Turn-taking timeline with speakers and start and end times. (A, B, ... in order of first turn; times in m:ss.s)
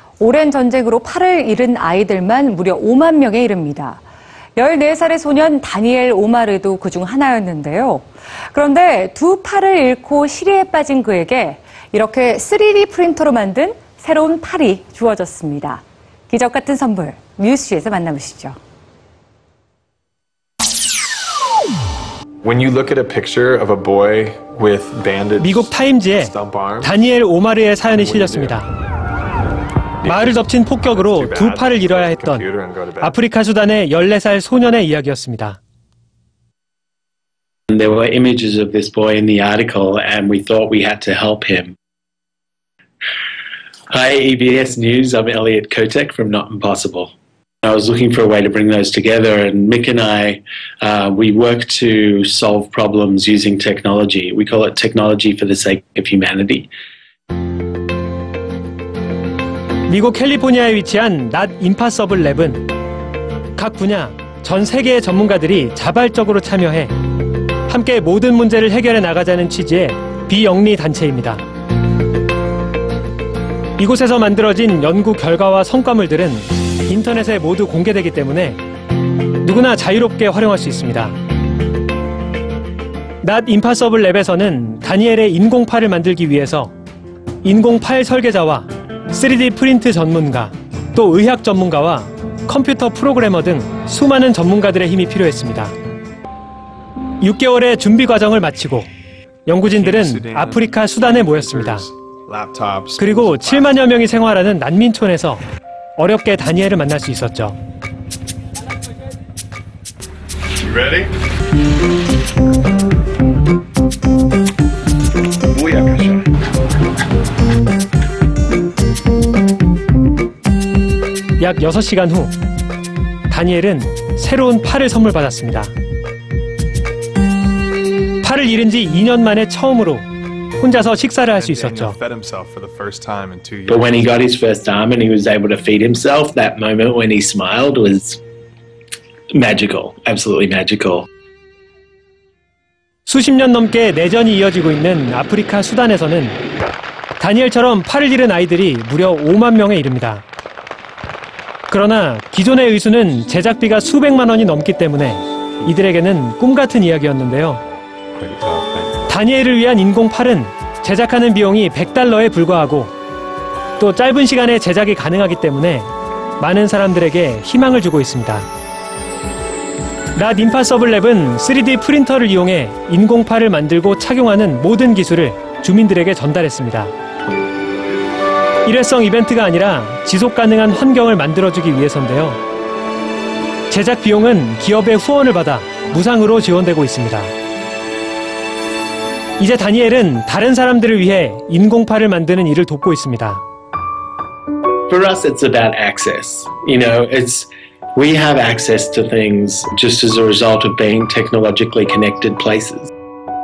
0:00.2-0:04.0 A
0:04.6-0:18.6 A
0:22.4-0:27.0 B
0:25.4-0:28.7 C
0:27.9-0:28.6 B
0:30.0-0:33.2 B
0:30.0-0:32.5 C
0:33.0-0:35.6 C
0:37.7-0:41.7 D
0:43.9-0:56.7 D
0:59.9-1:02.7 C
1:03.6-1:06.9 C
1:07.7-1:11.4 C
1:13.8-1:18.6 C
1:19.4-1:21.2 C
1:23.2-1:26.7 C
1:27.4-1:35.7 C
1:37.2-1:38.9 C
1:39.5-1:41.9 C
1:39.6-1:43.8 B
1:43.0-1:45.4 C
1:46.0-1:47.6 C
1:50.6-1:51.1 B
1:55.4-1:56.3 B
2:01.4-2:02.4 C
2:03.3-2:05.7 C
2:08.2-2:10.1 C
2:10.6-2:12.0 C
2:11.3-2:14.2 B
2:13.7-2:18.2 D
2:19.3-2:21.1 D
2:23.1-2:26.4 C
2:27.2-2:30.2 C
2:31.7-2:37.6 C
2:38.1-2:39.1 B
2:39.1-2:42.9 C
2:43.8-2:48.5 C
2:50.2-2:56.9 C
2:58.6-3:02.4 C
3:03.7-3:07.3 C
3:09.4-3:13.4 C
3:14.9-3:22.9 D